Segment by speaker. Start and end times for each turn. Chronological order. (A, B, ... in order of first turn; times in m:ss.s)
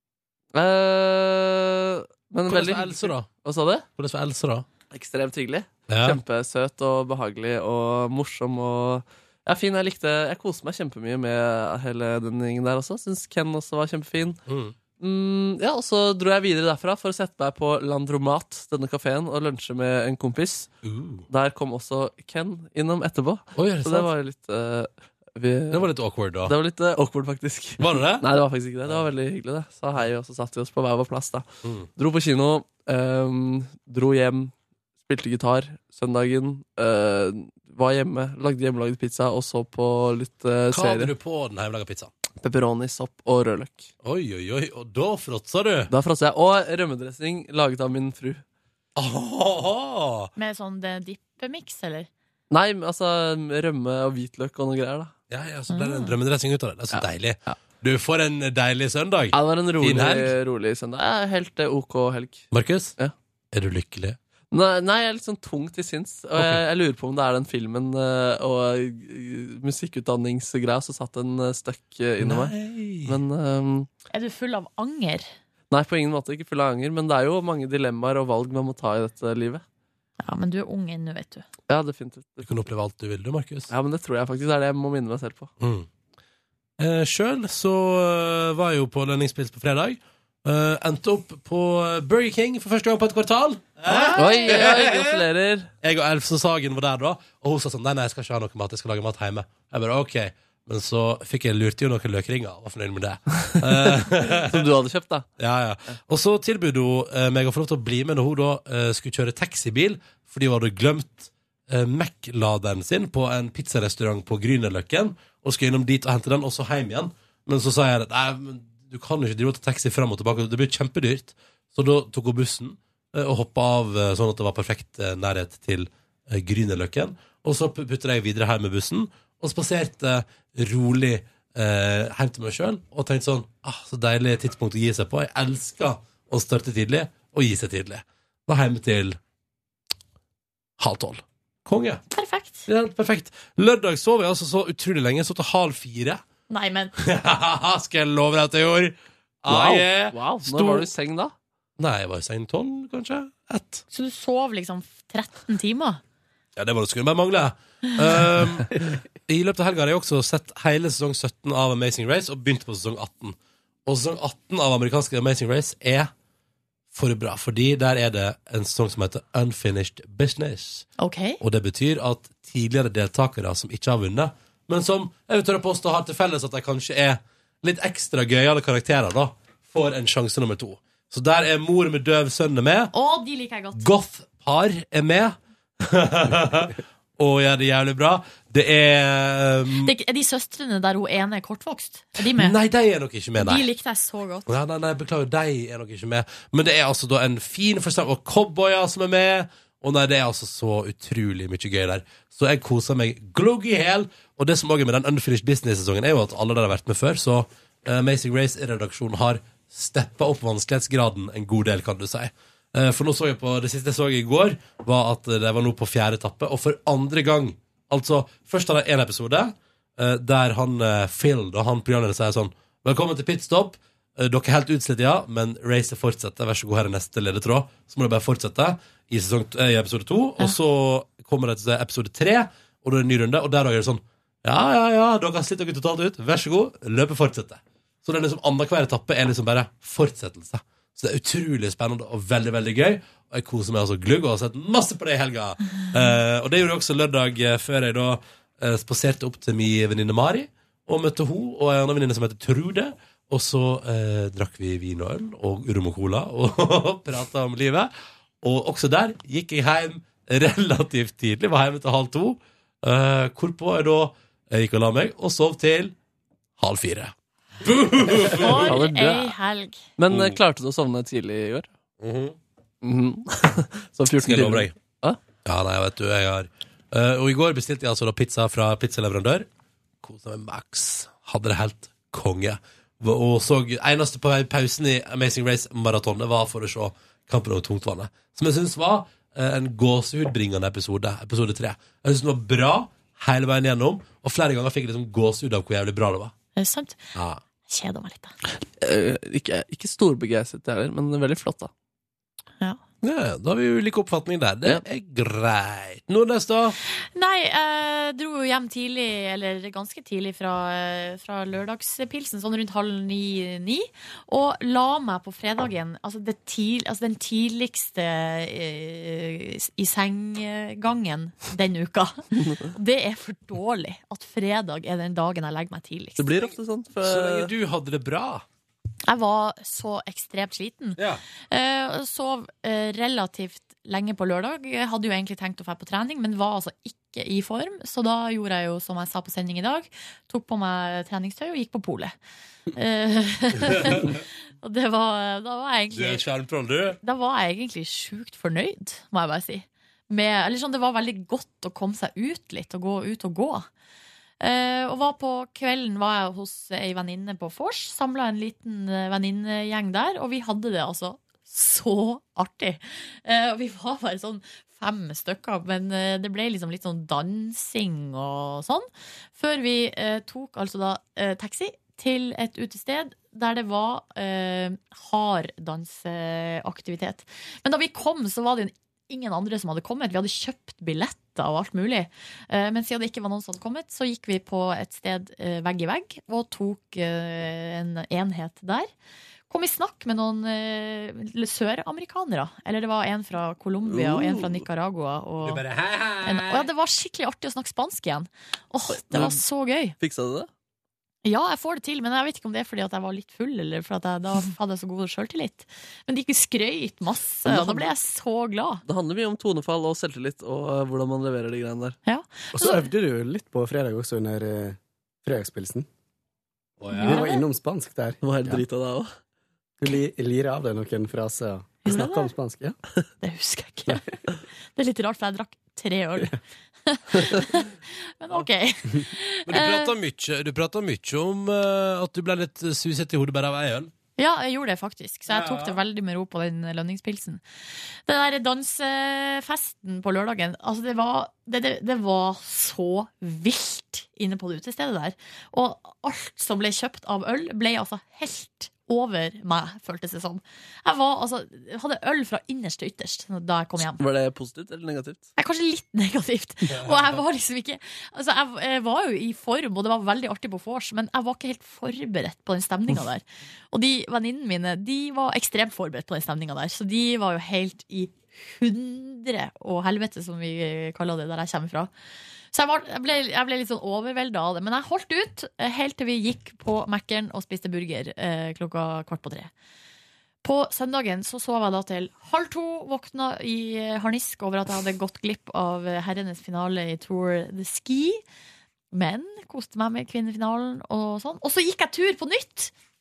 0:00.5-0:03.8 A
0:02.5-0:03.3 B
0:04.0-0:04.6 B
0:04.9-0:14.4 A
0:05.9-0:06.2 B
0:14.5-0:14.8 B
0:15.0-0:20.7 A
0:20.8-0:21.2 B
0:21.3-0:25.8 A
0:23.6-0:24.1 B
0:25.7-0:26.5 B
0:26.4-0:34.5 A
0:27.8-0:28.2 B
0:31.6-0:31.9 B
0:35.0-0:41.1 A
0:40.7-0:42.1 B
0:42.4-0:43.9 A
0:44.0-0:45.9 B
0:45.9-0:48.4 A
0:49.0-0:50.3 B
0:50.4-0:52.1 C
0:52.5-0:55.1 A
0:55.3-1:00.3 B
0:55.7-0:56.1 C
0:56.9-0:57.5 A
0:59.3-1:02.5 A
1:02.5-1:02.9 B
1:03.5-1:04.2 B
1:04.5-1:13.9 A
1:06.4-1:06.6 B
1:12.2-1:13.2 B
1:14.1-1:15.3 C
1:15.7-1:19.6 A
1:20.2-1:21.4 C
1:21.7-1:22.5 A
1:22.4-1:23.7 B
1:23.7-1:25.5 A
1:25.6-1:25.9 B
1:26.8-1:35.2 B
1:33.9-1:34.5 C
1:34.1-1:35.7 A
1:35.8-1:44.6 B
1:44.3-1:45.2 A
1:45.4-2:19.2 B
2:20.8-2:22.0 B
2:22.1-2:22.7 C
2:22.7-2:26.2 B
2:26.5-2:26.9 C
2:27.0-2:30.9 B
2:29.5-2:31.3 A
2:31.8-2:33.8 B
2:33.9-2:36.0 C
2:36.6-2:46.1 B
2:46.9-2:50.8 B
2:51.0-2:51.4 C
2:51.4-3:02.9 B
3:02.9-3:03.8 C
3:03.7-3:09.9 B
3:09.8-3:12.6 C
3:12.2-3:13.7 B
3:13.4-3:14.5 C
3:14.5-4:17.9 B
4:18.4-4:25.9 B
4:26.6-4:28.8 B
4:28.3-4:29.8 C
4:28.6-4:29.3 A
4:30.0-4:31.7 A
4:30.1-4:30.4 B
4:32.0-4:32.4 B
4:32.8-4:35.2 A
4:34.2-4:34.7 B
4:35.4-4:39.5 B
4:40.0-4:56.3 B
4:56.6-4:57.1 C
4:57.1-4:57.4 B
4:57.7-4:58.3 C
4:58.7-5:01.7 A
5:03.0-5:06.8 B
5:06.8-5:26.5 C
5:22.4-5:22.6 A
5:26.2-5:27.5 A
5:27.0-5:28.4 B
5:29.1-5:42.1 C
5:31.0-5:31.2 B
5:42.7-5:46.2 C
5:43.7-5:44.1 B
5:45.9-5:47.0 B
5:47.0-5:53.7 C
5:54.4-6:28.9 C
6:29.5-6:35.6 C
6:33.9-6:34.6 A
6:35.4-6:36.7 B
6:36.2-6:40.0 C
6:38.9-6:39.4 A
6:40.0-6:40.5 A
6:41.2-6:48.8 C
6:47.4-6:47.9 A
6:48.9-6:52.0 A
6:52.0-6:52.8 C
6:52.5-6:55.9 D
6:56.8-6:57.2 B
6:56.9-6:57.4 C
6:57.0-6:58.6 D
6:58.2-6:59.1 A
6:59.8-7:02.8 D
7:01.8-7:02.3 C
7:03.2-7:04.0 C
7:04.7-7:09.9 C
7:09.5-7:13.9 B
7:14.2-7:17.4 C
7:15.3-7:15.8 B
7:18.1-7:34.0 C
7:33.8-7:35.3 A
7:35.4-7:51.9 C
7:36.7-7:37.2 B
7:52.5-7:59.5 C
8:00.4-8:08.2 C
8:08.9-8:12.7 C